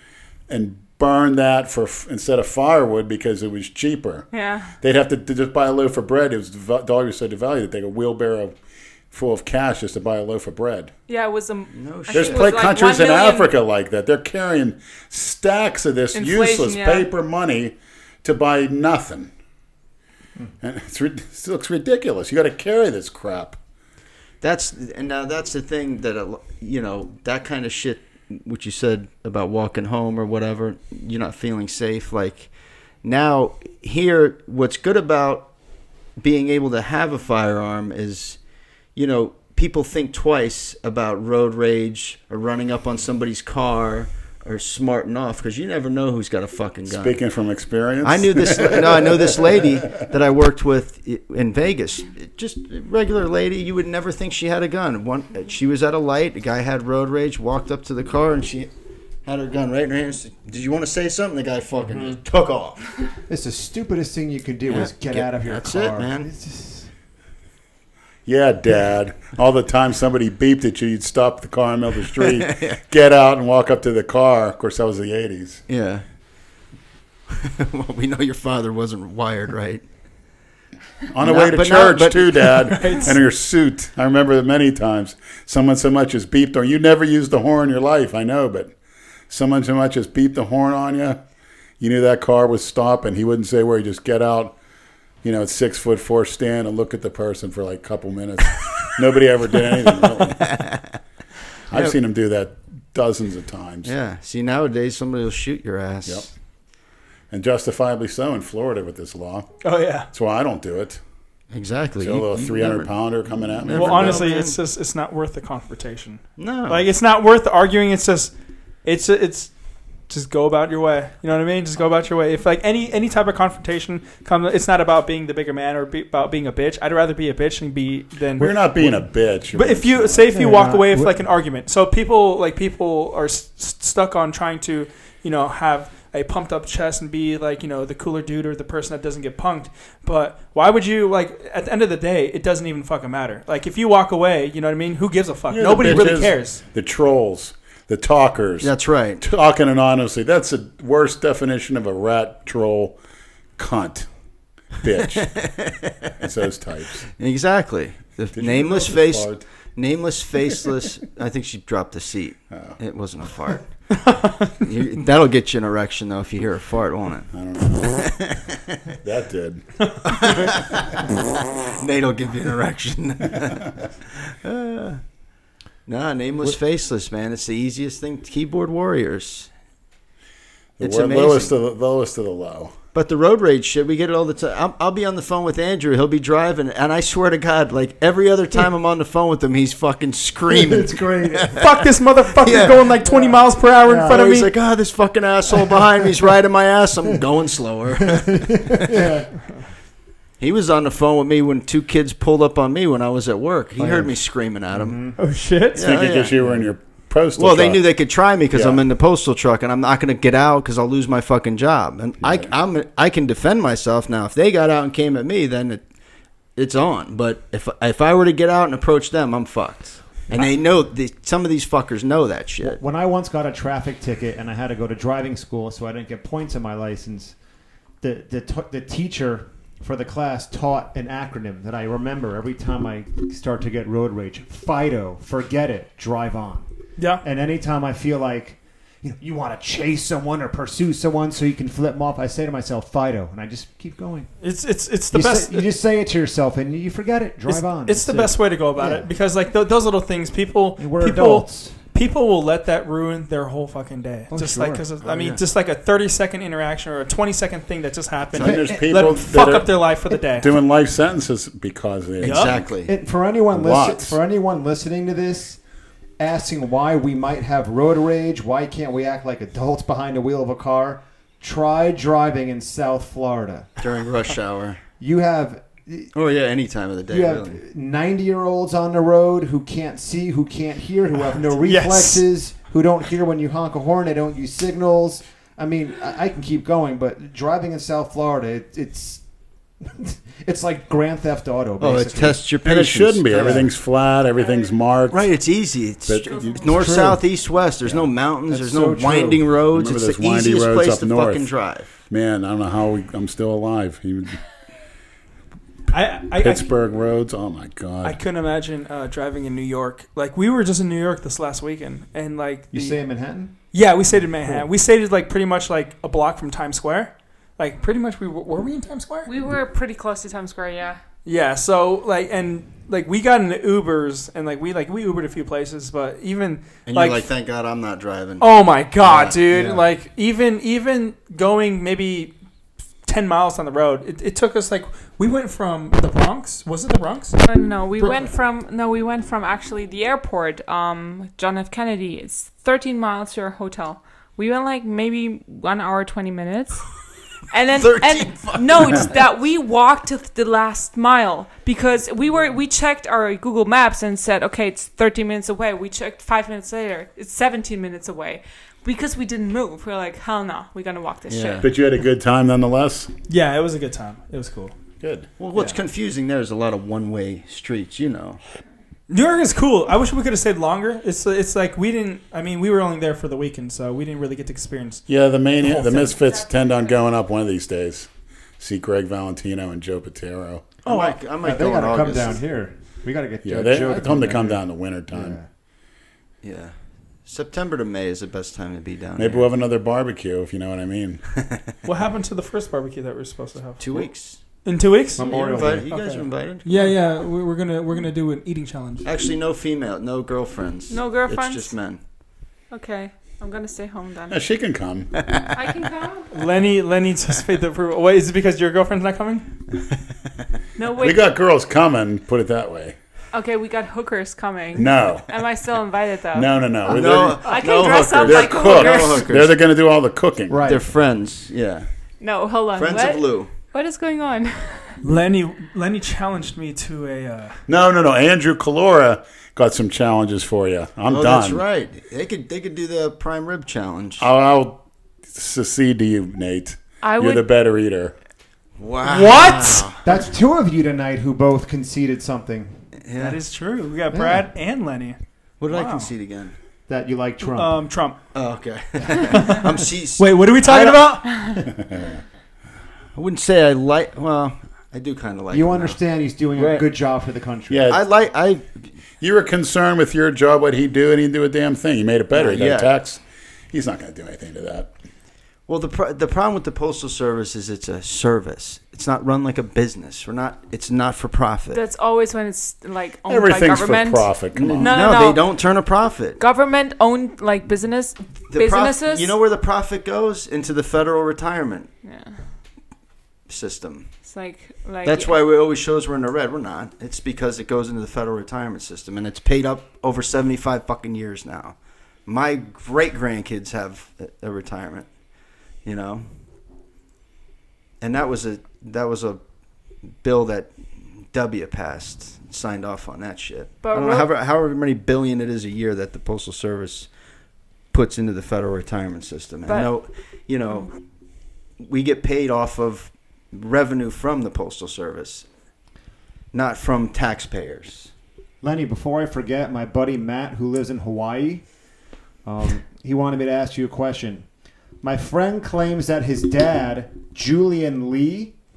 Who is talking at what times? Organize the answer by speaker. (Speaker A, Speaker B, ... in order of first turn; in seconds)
Speaker A: 0.5-4.3, 4.8-8.6, 9.1-10.9, 12.1-19.3, 20.6-23.6, 46.9-50.0, 68.2-75.6, 81.1-88.7, 89.3-91.2, 91.8-94.5, 95.2-100.4, 101.7-103.9, 107.3-109.5, 110.1-111.0, 112.0-114.2, 128.4-130.3, 145.5-153.0, 153.6-154.1, 154.8-155.4, 156.2-157.0, 158.3-159.4, 162.5-162.8, 167.3-168.1, 169.0-170.5, 180.8-182.7, 205.8-207.9, 208.5-208.8, 212.2-212.5, 258.4-259.8, 260.4-262.7, 263.5-264.1, 292.6-295.3, 296.1-297.1, 299.7-301.5, 302.1-304.4, 306.4-308.2, 361.6-363.1, 365.0-365.3, 375.1-378.1, 378.6-380.7, 383.4-385.4, 389.1-391.2, 404.3-405.1, 411.0-412.9, 414.8-415.2, 416.3-420.6, 427.7-431.6, 434.2-434.8, 435.3-438.1, 451.8-452.1, 457.7-458.0, 459.2-463.2, 463.7-464.9, 473.3-475.2
Speaker B: 4.3-4.7, 11.1-13.5, 16.1-17.1, 319.2-321.0, 337.4-346.8, 347.5-361.7, 400.9-401.7, 402.7-404.4, 405.5-406.3, 410.8-411.2, 413.3-416.5, 417.4-419.3, 422.2-425.0, 437.0-437.4, 471.7-475.4, 476.4-479.3, 482.0-482.4, 484.2-485.4, 503.8-504.3, 509.7-509.9
Speaker C: 11.7-12.5, 24.4-32.5, 33.0-35.5, 36.2-38.4, 38.9-47.2, 48.0-58.7, 59.2-62.9, 64.7-66.3, 72.2-72.8, 75.7-76.0, 77.3-79.8, 81.2-83.1, 99.7-101.0, 101.7-102.0, 103.8-106.3, 111.5-114.6, 116.4-116.8, 148.6-149.2, 155.1-156.1, 157.1-163.9, 164.6-168.8, 170.0-170.9, 171.6-173.7, 174.2-175.0, 175.8-179.5, 180.8-181.6, 182.9-191.7, 192.4-192.9, 194.1-199.1, 200.4-205.0, 205.7-206.3, 207.3-215.8, 216.6-222.8, 255.0-255.4, 262.2-262.9, 273.8-274.8, 276.1-277.6, 291.8-293.7, 295.1-301.9, 326.9-328.4, 329.0-329.7, 338.0-338.2, 347.8-349.1, 361.3-361.7, 365.4-368.4, 380.8-382.4, 386.4-389.5, 391.3-391.7, 393.8-394.4, 395.2-396.9, 399.0-402.0, 405.2-405.5, 416.9-419.6, 420.6-421.9, 422.8-423.5, 431.1-434.3, 438.8-440.0, 443.0-443.4, 445.6-446.5, 448.3-451.2, 453.1-455.9, 456.5-456.9, 457.9-458.9, 462.3-462.9, 465.7-471.8, 474.5-476.4, 478.5-481.9, 483.5-484.1, 485.0-495.1, 495.8-496.2, 498.0-499.4, 500.2-507.1, 507.9-510.9, 511.8-515.5, 516.5-518.1
Speaker D: 61.9-62.2, 63.3-66.9, 130.3-131.2, 190.5-191.6, 193.0-194.2, 198.0-199.4, 203.8-204.2, 204.7-205.2, 222.6-227.3, 228.0-236.7, 237.2-244.3, 245.1-249.1, 250.8-251.8, 254.3-254.8, 258.4-258.9, 262.8-265.6, 266.2-273.7, 275.0-276.1, 277.1-289.2, 289.8-292.4, 296.7-297.2, 297.8-299.4, 312.7-313.6, 329.5-329.8, 381.4-385.4, 395.2-395.9, 420.5-420.8, 439.1-442.7, 444.1-444.5, 446.9-447.8, 455.5-457.9, 518.6-521.6, 522.4-524.5, 525.0-528.5
Speaker E: 82.7-83.1, 109.6-110.1, 113.7-118.3, 118.8-119.5, 120.1-129.0, 129.5-146.6, 163.9-164.6, 191.6-194.5, 205.2-205.9, 237.0-237.2, 244.4-245.7, 247.5-260.5, 262.2-262.6, 281.6-282.2, 305.9-306.7, 308.0-313.0, 313.7-319.3, 321.2-327.3, 328.4-332.3, 333.0-337.4, 363.3-364.8, 369.1-375.0, 375.6-376.2, 380.8-381.2, 391.8-394.1, 394.6-399.1, 406.3-409.5, 425.0-427.6, 439.0-439.8, 443.1-445.2, 445.7-446.1, 447.4-448.2, 449.3-451.5